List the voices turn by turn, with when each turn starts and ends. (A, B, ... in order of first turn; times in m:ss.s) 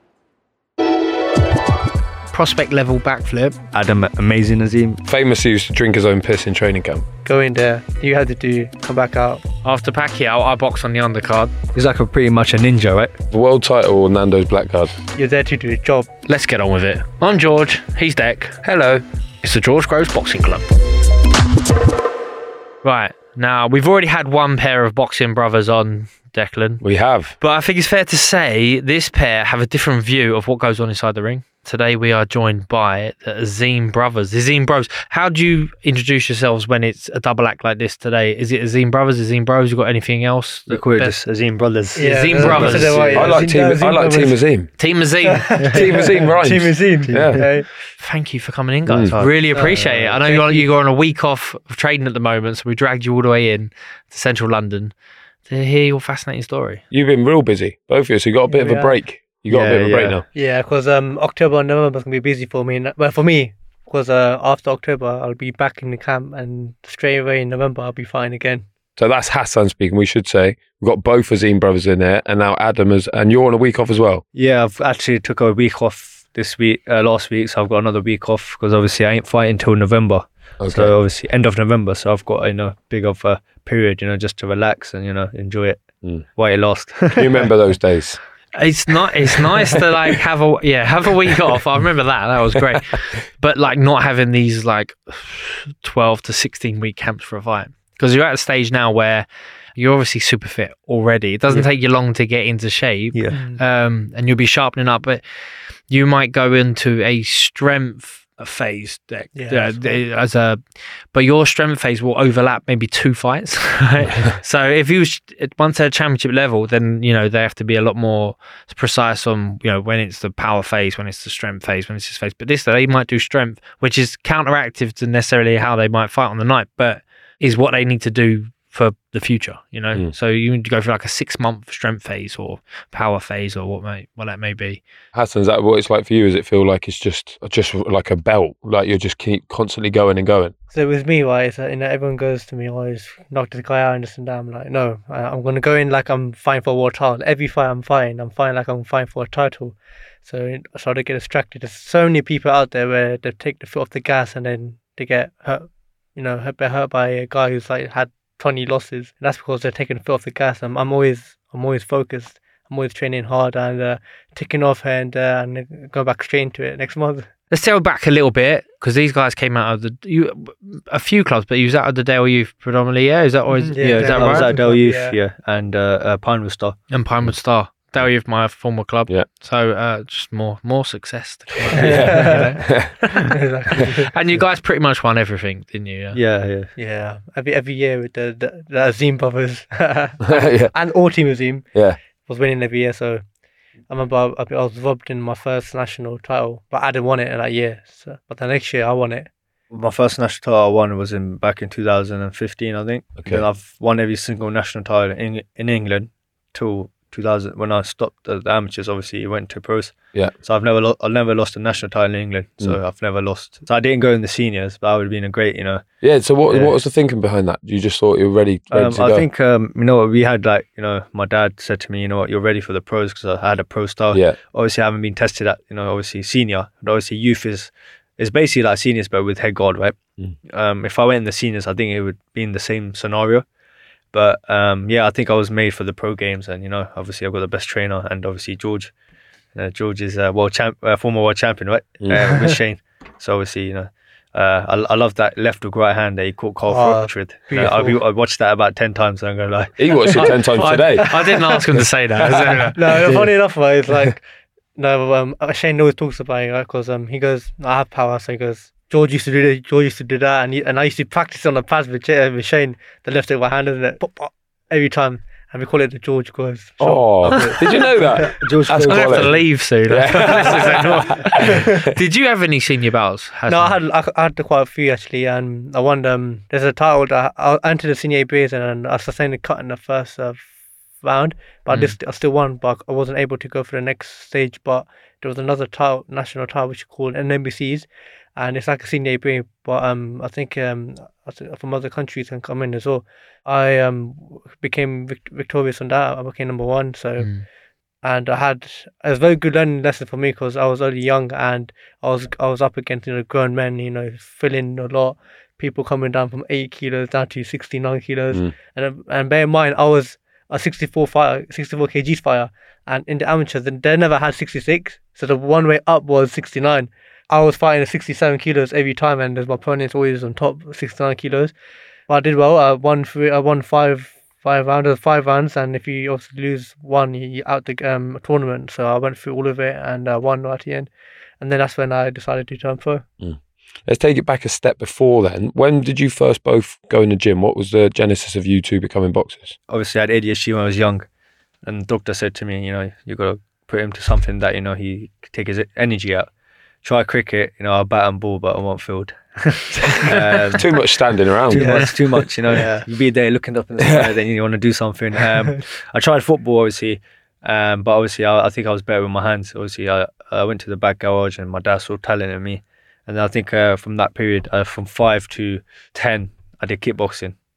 0:02.3-0:03.6 A
0:03.7-0:05.0 B
0:05.0-0:07.0 C
0:07.2-0:09.4 D
0:09.6-0:11.5 A
0:11.7-0:13.1 B
0:13.3-0:14.9 C
0:15.1-0:16.1 D
0:16.2-0:18.7 A
0:18.6-0:19.0 C
0:19.4-0:20.7 A
0:22.8-0:26.8 A
0:26.8-0:27.3 C
0:27.4-0:41.0 A
0:40.7-0:43.4 B
0:41.9-0:44.4 D
0:42.0-0:43.2 A
0:42.6-0:44.7 C
0:44.8-0:45.5 A
0:45.2-0:47.7 D
0:45.6-0:45.8 B
0:45.7-0:47.4 C
0:47.0-0:47.5 B
0:48.0-0:54.9 A
0:48.8-0:49.2 C
0:49.0-0:50.2 B
0:49.5-0:50.7 D
0:55.5-0:56.8 A
0:56.9-1:00.2 C
0:58.5-0:58.9 D
0:59.5-1:00.2 B
1:00.3-1:08.6 D
1:09.0-1:14.2 C
1:14.3-1:25.8 B
1:20.6-1:20.9 C
1:26.4-1:27.5 B
1:27.1-1:28.2 C
1:28.5-1:45.2 A
1:43.3-1:43.6 D
1:45.9-1:50.6 A
1:49.3-1:50.0 D
1:51.1-2:14.8 A
2:15.1-2:20.5 C
2:20.7-2:47.3 D
2:47.5-2:54.6 A
2:53.6-2:55.2 D
2:53.8-2:56.8 B
2:56.9-3:03.2 A
3:01.7-3:02.9 C
3:01.8-3:02.5 D
3:03.3-3:04.1 D
3:03.8-3:06.2 A
3:06.1-3:06.7 B
3:06.8-3:11.7 D
3:10.2-3:10.7 C
3:12.2-3:13.2 D
3:13.9-3:19.3 D
3:19.7-3:35.8 B
3:36.0-3:39.2 C
3:36.5-3:36.7 B
3:38.7-3:50.0 B
3:44.1-3:44.4 C
3:50.5-3:53.4 B
3:54.1-3:58.9 B
3:59.5-4:10.4 B
4:06.7-4:08.0 D
4:09.8-4:11.1 C
4:10.2-4:13.1 A
4:11.1-4:11.4 D
4:12.7-4:14.2 D
4:14.8-4:28.3 D
4:26.8-4:31.8 C
4:28.2-4:29.4 B
4:28.8-4:33.8 A
4:33.5-4:40.5 D
4:41.0-4:57.3 D
4:41.7-4:42.0 A
4:57.2-4:57.4 A
4:58.0-5:21.5 D
5:22.1-5:33.0 D
5:33.2-5:39.6 C
5:39.7-5:41.0 B
5:41.6-5:46.3 B
5:46.8-5:50.7 B
5:50.0-5:52.0 C
5:51.5-6:07.4 B
5:51.5-5:51.9 D
5:52.5-5:52.8 D